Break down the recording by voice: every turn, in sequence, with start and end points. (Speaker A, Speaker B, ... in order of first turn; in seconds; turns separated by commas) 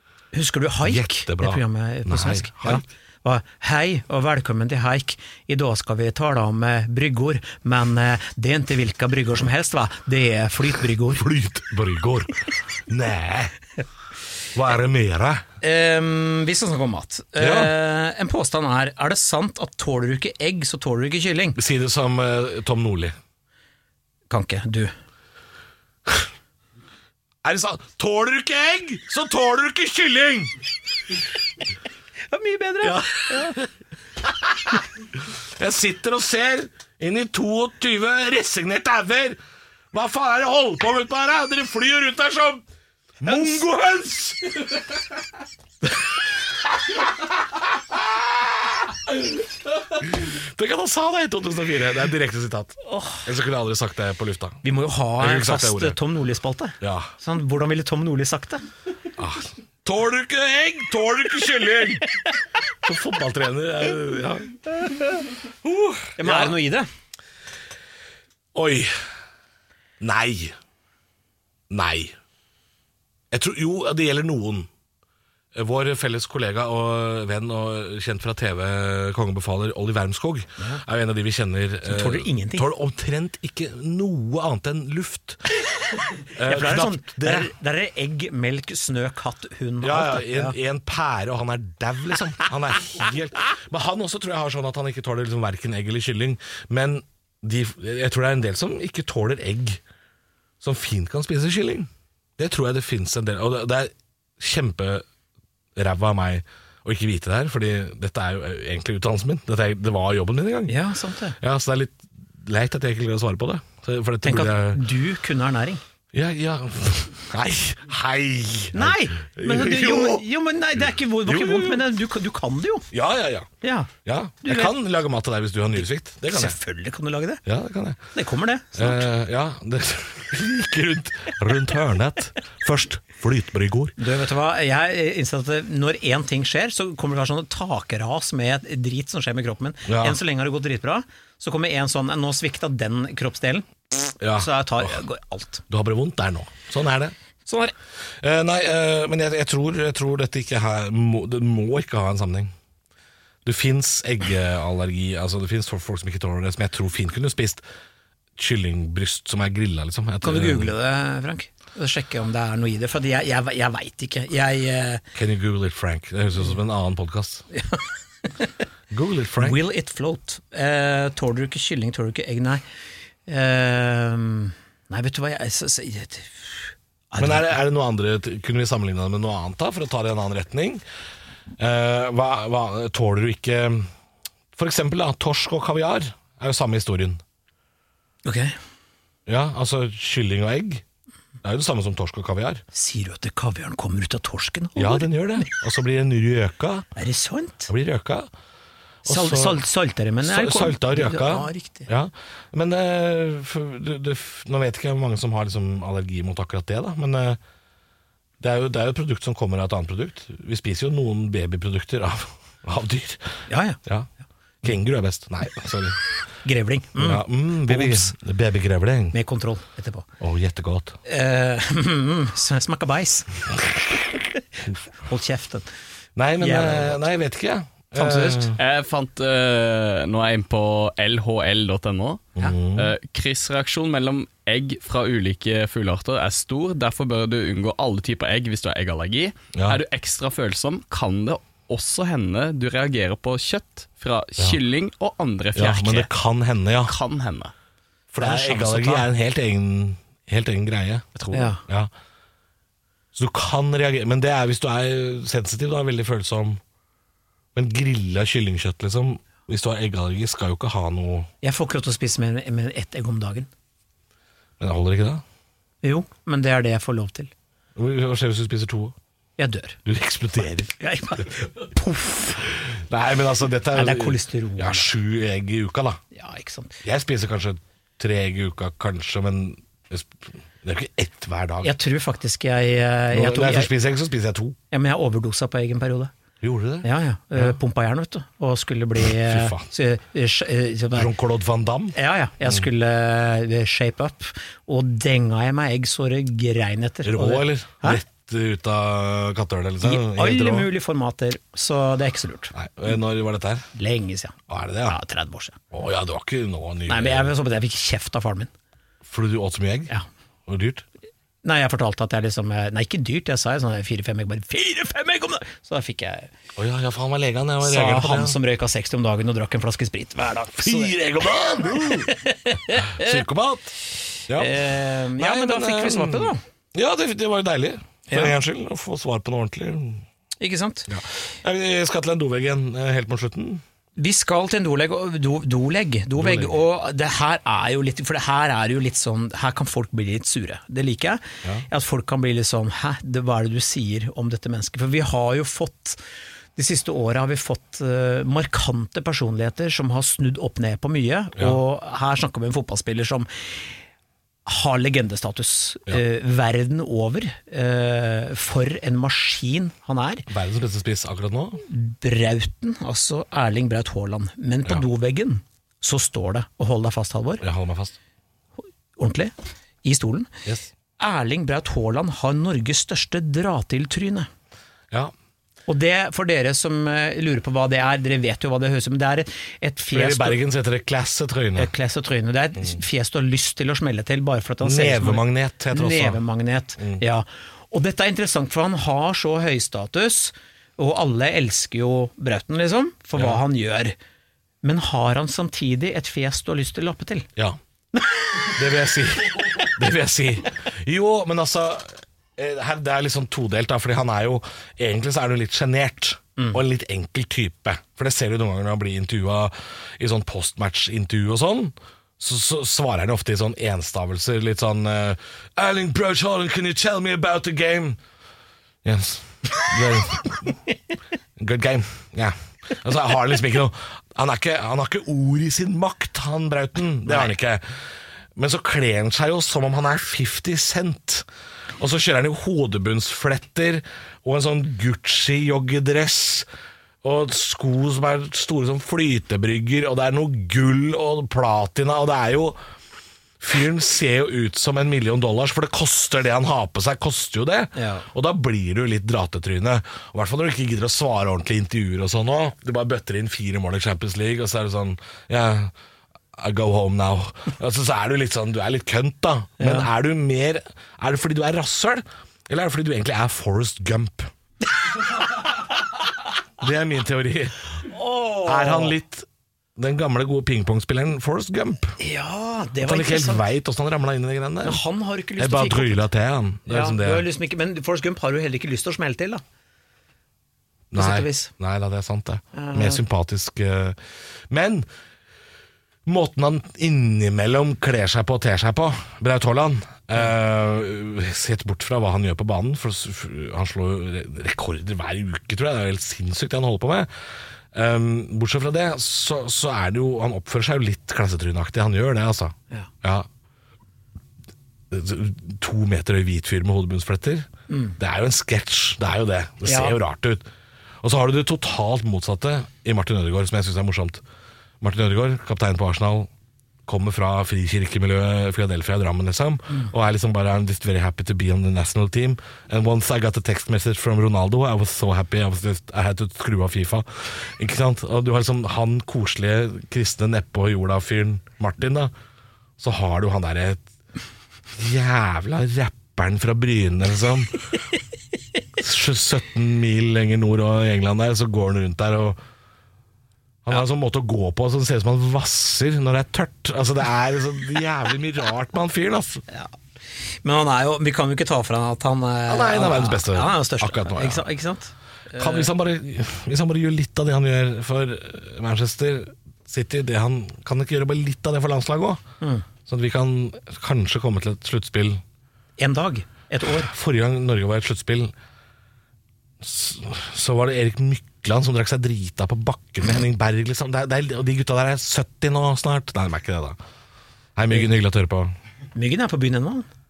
Speaker A: 0.3-11.2, Speaker B: 0.8-2.8, Speaker B: 11.1-13.5, Speaker B: 14.5-15.4, Speaker A: 15.6-21.6, Speaker B: 17.4-17.7, Speaker B: 21.6-23.1, Speaker A: 24.3-24.9, Speaker B: 27.4-30.5, Speaker A: 32.3-33.6, Speaker B: 32.8-33.7, Speaker B: 34.2-34.8, Speaker B: 35.6-39.4, Speaker B: 39.9-42.6, Speaker B: 43.2-44.7, Speaker B: 47.9-48.5, Speaker B: 49.9-54.6, Speaker A: 52.9-53.2, Speaker A: 54.6-58.6, Speaker B: 55.2-56.0, Speaker B: 56.8-57.1, Speaker B: 59.2-62.0, Speaker B: 62.8-64.6, Speaker B: 65.6-66.6, Speaker A: 66.2-66.9, Speaker B: 68.5-68.9, Speaker B: 70.0-70.5, Speaker B: 71.7-72.2, Speaker B: 73.3-74.7, Speaker B: 75.5-85.4, Speaker A: 81.8-82.7, Speaker B: 86.3-87.5, Speaker A: 86.4-90.5, Speaker B: 89.8-99.8, Speaker B: 100.6-105.0, Speaker B: 105.7-110.8, Speaker A: 110.7-111.4, Speaker B: 111.4-114.8, Speaker A: 114.2-115.8, Speaker B: 116.1-120.2, Speaker A: 118.7-122.9, Speaker B: 121.2-121.9, Speaker B: 122.9-123.5, Speaker A: 123.6-123.9, Speaker B: 124.0-126.6, Speaker A: 124.4-124.7, Speaker A: 126.3-127.4, Speaker B: 127.4-128.0, Speaker A: 128.1-129.1, Speaker B: 128.8-133.9, Speaker A: 134.0-145.6, Speaker B: 139.9-140.2, Speaker B: 144.2-145.0, Speaker B: 145.7-147.1, Speaker A: 147.4-147.7, Speaker B: 148.2-152.5, Speaker B: 153.4-157.6, Speaker B: 158.3-160.7, Speaker A: 160.2-165.0, Speaker B: 165.1-167.4, Speaker A: 167.5-167.8, Speaker B: 168.9-169.6, Speaker A: 169.4-172.6, Speaker A: 173.3-177.5, Speaker B: 177.2-180.8, Speaker B: 181.6-183.9, Speaker B: 184.5-187.2, Speaker A: 188.2-188.6, Speaker B: 189.3-190.8, Speaker B: 191.4-192.6, Speaker A: 192.7-195.5, Speaker B: 194.8-196.9, Speaker A: 196.9-197.7, Speaker B: 197.7-198.3, Speaker B: 199.0-199.6, Speaker A: 199.0-201.9, Speaker B: 200.2-207.4, Speaker B: 208.4-214.1, Speaker A: 213.5-213.8, Speaker B: 214.6-216.0, Speaker A: 216.4-218.1, Speaker B: 217.0-219.2, Speaker A: 219.1-220.1, Speaker B: 220.2-221.0, Speaker A: 221.0-223.4, Speaker A: 224.9-225.7, Speaker B: 226.2-228.6, Speaker A: 226.4-227.0, Speaker A: 227.9-228.5, Speaker C: 228.6-246.1, Speaker B: 232.3-232.9, Speaker B: 239.5-239.8, Speaker B: 245.5-246.9, Speaker C: 246.8-247.5, Speaker B: 248.1-251.1, Speaker A: 248.2-249.1, Speaker C: 251.2-251.5, Speaker A: 251.3-251.6, Speaker B: 251.7-251.9, Speaker B: 253.1-256.6, Speaker B: 257.5-261.3, Speaker A: 261.4-263.5, Speaker B: 264.6-265.2, Speaker A: 265.8-267.3, Speaker B: 267.8-268.9, Speaker A: 269.4-269.8, Speaker B: 269.9-270.7, Speaker A: 270.7-272.5, Speaker B: 272.4-276.0, Speaker A: 273.7-274.9, Speaker A: 276.1-276.8, Speaker B: 276.8-281.7, Speaker A: 281.6-283.7, Speaker B: 283.1-284.6, Speaker A: 284.7-286.1, Speaker B: 286.4-287.6, Speaker A: 286.8-291.1, Speaker B: 289.0-289.6, Speaker B: 290.9-292.6, Speaker A: 291.9-298.0, Speaker B: 297.0-300.7, Speaker A: 299.8-302.5, Speaker B: 302.5-303.7, Speaker A: 303.7-305.6, Speaker B: 304.5-305.0, Speaker B: 305.7-307.3, Speaker A: 306.9-308.5, Speaker B: 309.0-309.9, Speaker B: 310.5-310.8, Speaker A: 311.4-316.3, Speaker B: 316.6-318.4, Speaker A: 317.6-321.0, Speaker B: 320.5-322.1, Speaker A: 321.6-323.2, Speaker B: 322.7-323.7, Speaker B: 324.3-324.6, Speaker A: 324.3-326.4, Speaker B: 325.1-330.0, Speaker A: 328.1-328.4, Speaker A: 330.4-330.9, Speaker B: 330.9-333.6, Speaker A: 334.0-346.0, Speaker B: 336.1-336.5, Speaker A: 346.6-353.6, Speaker A: 354.4-360.3, Speaker B: 360.3-361.6, Speaker A: 361.6-367.4, Speaker B: 367.4-367.9, Speaker A: 369.0-370.3, Speaker B: 370.4-370.7, Speaker A: 371.0-374.3, Speaker A: 375.7-380.4, Speaker B: 379.9-381.7, Speaker A: 381.6-393.9, Speaker B: 384.6-386.2, Speaker B: 393.1-393.4, Speaker A: 394.6-397.3, Speaker A: 397.9-398.5, Speaker B: 398.5-418.0, Speaker B: 418.8-420.5, Speaker B: 421.4-427.6, Speaker A: 427.1-427.3, Speaker B: 428.4-431.2, Speaker B: 431.8-436.5, Speaker B: 437.0-442.6, Speaker B: 443.4-455.7, Speaker A: 447.7-448.1, Speaker B: 456.4-464.3, Speaker A: 459.6-459.9, Speaker B: 466.6-467.6, Speaker A: 467.9-468.9, Speaker B: 468.4-472.0, Speaker A: 472.0-473.5, Speaker B: 472.8-474.8, Speaker A: 474.6-476.1, Speaker B: 475.4-477.2, Speaker A: 476.7-479.4, Speaker B: 480.9-484.9, Speaker A: 480.9-481.5, Speaker A: 482.5-483.0, Speaker B: 486.1-497.1, Speaker B: 497.7-503.3, Speaker B: 504.9-510.5, Speaker A: 507.7-508.0, Speaker A: 509.6-510.0, Speaker B: 511.0-514.2, Speaker B: 514.8-516.3, Speaker B: 516.9-532.1, Speaker B: 532.8-533.8, Speaker B: 534.8-537.6, Speaker B: 538.8-542.4, Speaker B: 543.6-549.4, Speaker A: 550.4-555.7, Speaker B: 552.5-554.5, Speaker B: 555.4-562.2, Speaker A: 562.4-562.6, Speaker B: 562.9-565.2, Speaker A: 565.8-566.9, Speaker B: 566.7-568.3, Speaker B: 569.6-576.8, Speaker B: 577.5-578.5, Speaker A: 578.9-579.9